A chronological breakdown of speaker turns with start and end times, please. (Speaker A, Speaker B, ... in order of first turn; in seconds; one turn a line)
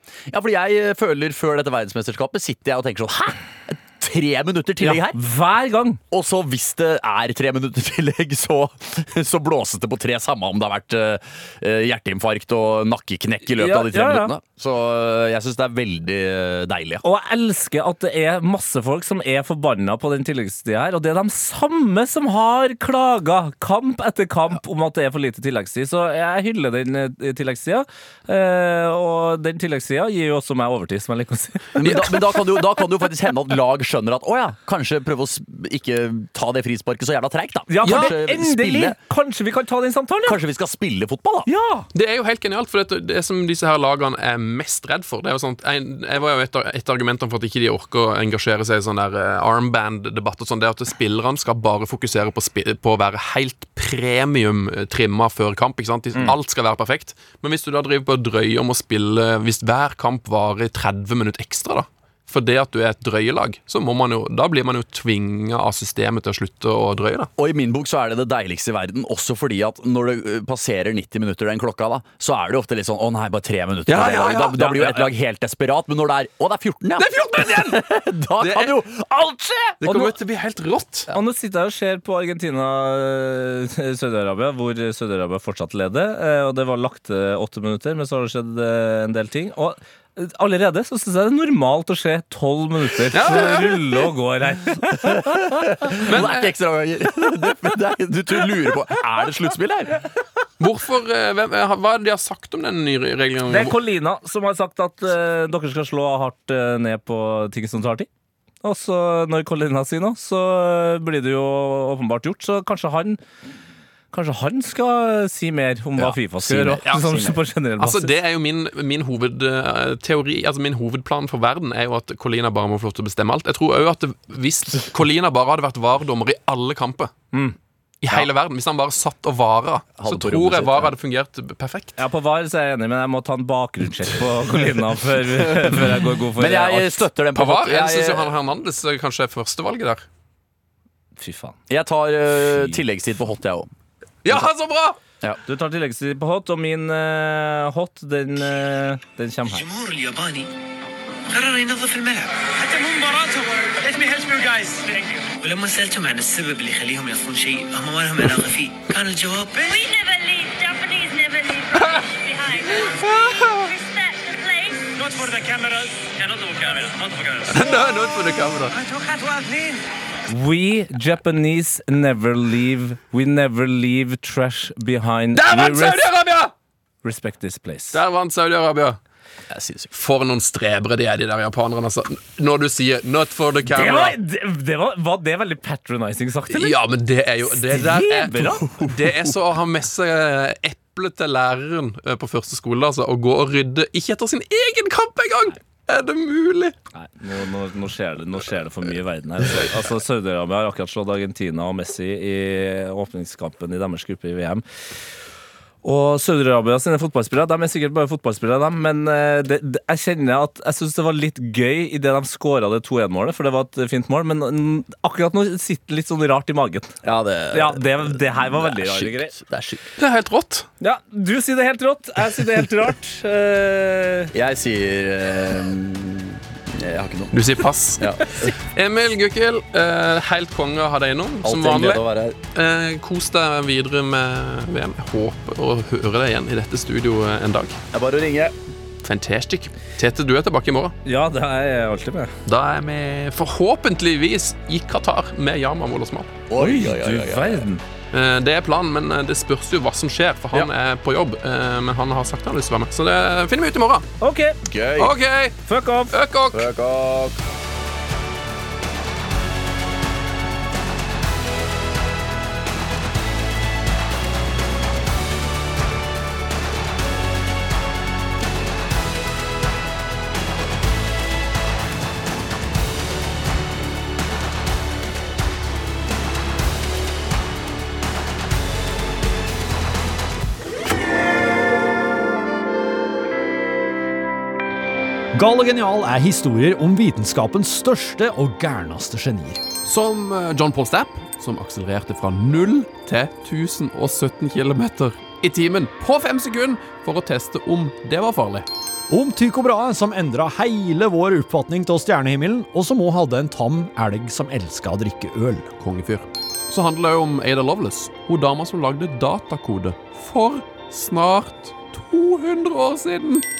Speaker A: 0.3-5.2
Speaker B: 4.8-6.0
Speaker A: 6.1-17.0
Speaker B: 13.5-14.3
Speaker B: 17.0-32.4
Speaker A: 31.8-39.0
Speaker B: 37.7-40.4
Speaker C: 37.8-38.1
Speaker A: 40.2-41.5
Speaker B: 41.5-41.9
Speaker C: 41.9-67.3
Speaker A: 67.4-80.1
Speaker C: 73.9-74.8
Speaker B: 74.6-74.9
Speaker C: 77.0-78.8
Speaker C: 79.8-81.1
Speaker B: 81.1-96.0
Speaker C: 93.1-93.8
Speaker A: 95.0-100.0
Speaker C: 96.0-96.5
Speaker C: 100.6-103.8
Speaker B: 103.5-108.1
Speaker B: 108.6-113.2
Speaker B: 114.1-118.1
Speaker A: 116.0-117.3
Speaker C: 116.9-117.2
Speaker C: 117.8-127.1
Speaker C: 128.0-132.0
Speaker A: 130.0-130.9
Speaker B: 132.0-137.0
Speaker A: 135.5-135.8
Speaker A: 136.3-138.3
Speaker C: 137.3-140.0
Speaker B: 141.2-141.6
Speaker A: 141.7-143.7
Speaker C: 144.2-145.0
Speaker B: 145.4-149.7
Speaker D: 149.5-150.5
Speaker D: 151.3-159.8
Speaker E: 159.6-165.3
Speaker C: 162.8-163.7
Speaker D: 165.0-167.7
Speaker C: 167.5-168.8
Speaker D: 168.7-169.8
Speaker B: 170.3-176.1
Speaker C: 175.3-176.5
Speaker B: 177.0-178.0
Speaker C: 177.9-179.0
Speaker A: 179.5-179.9
Speaker C: 179.9-184.2
Speaker B: 183.7-186.8
Speaker C: 186.5-196.7
Speaker B: 187.5-188.6
Speaker A: 188.8-189.3
Speaker B: 196.9-204.6
Speaker B: 205.8-216.9
Speaker A: 217.0-219.8
Speaker B: 217.5-219.3
Speaker C: 220.0-220.7
Speaker B: 220.8-224.3
Speaker A: 224.3-227.4
Speaker C: 227.3-237.8
Speaker A: 228.0-228.5
Speaker A: 231.4-232.4
Speaker A: 237.9-238.5
Speaker C: 239.0-240.9
Speaker B: 241.1-242.3
Speaker C: 242.4-246.4
Speaker A: 246.5-247.7
Speaker B: 246.6-247.8
Speaker C: 248.1-254.1
Speaker B: 254.2-254.6
Speaker A: 254.6-255.1
Speaker C: 255.0-256.7
Speaker B: 255.7-256.1
Speaker A: 256.5-257.4
Speaker F: 285.3-289.6
Speaker C: 289.8-298.7
Speaker F: 299.1-305.7
Speaker C: 305.7-313.4